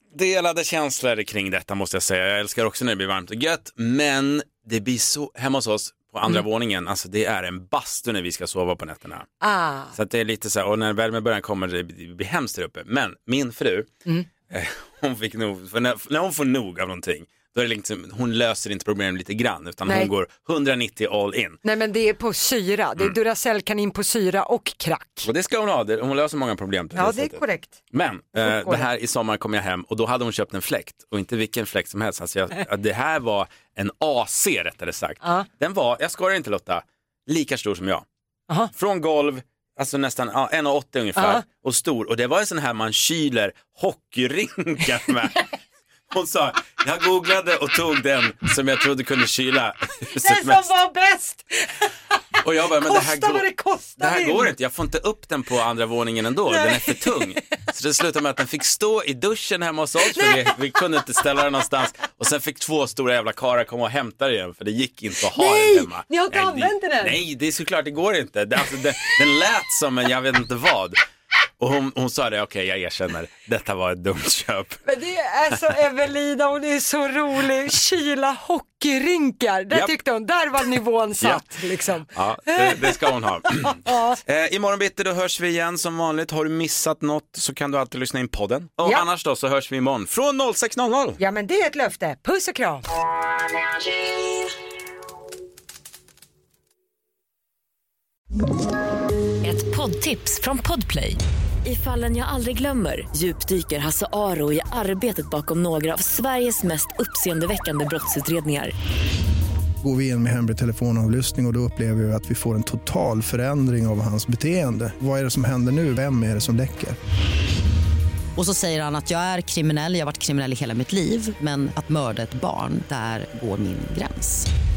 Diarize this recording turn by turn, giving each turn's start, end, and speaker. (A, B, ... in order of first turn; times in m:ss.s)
0:00.1-0:09.3 A
0:09.4-0:09.9 B
0:09.9-0:13.9 A
0:14.5-0:21.6 A
0:19.9-0:20.1 B
0:21.6-0:25.3 B
0:25.2-0:38.0 A
0:27.0-0:27.8 B
0:28.4-0:28.9 B
0:38.7-0:45.4 A
0:41.2-0:41.4 B
0:46.1-0:50.7 A
0:50.1-0:51.9 B
0:52.4-0:53.4 A
0:52.8-0:54.5 B
0:54.0-1:11.0 A
0:56.5-0:57.4 B
1:00.1-1:00.5 B
1:05.3-1:07.2 B
1:11.6-1:14.8 A
1:14.9-1:24.2 B
1:21.2-1:21.5 A
1:22.1-1:31.2 A
1:31.2-1:32.9 B
1:39.4-1:48.7 C
1:49.8-1:57.0 D
1:58.4-2:04.5 E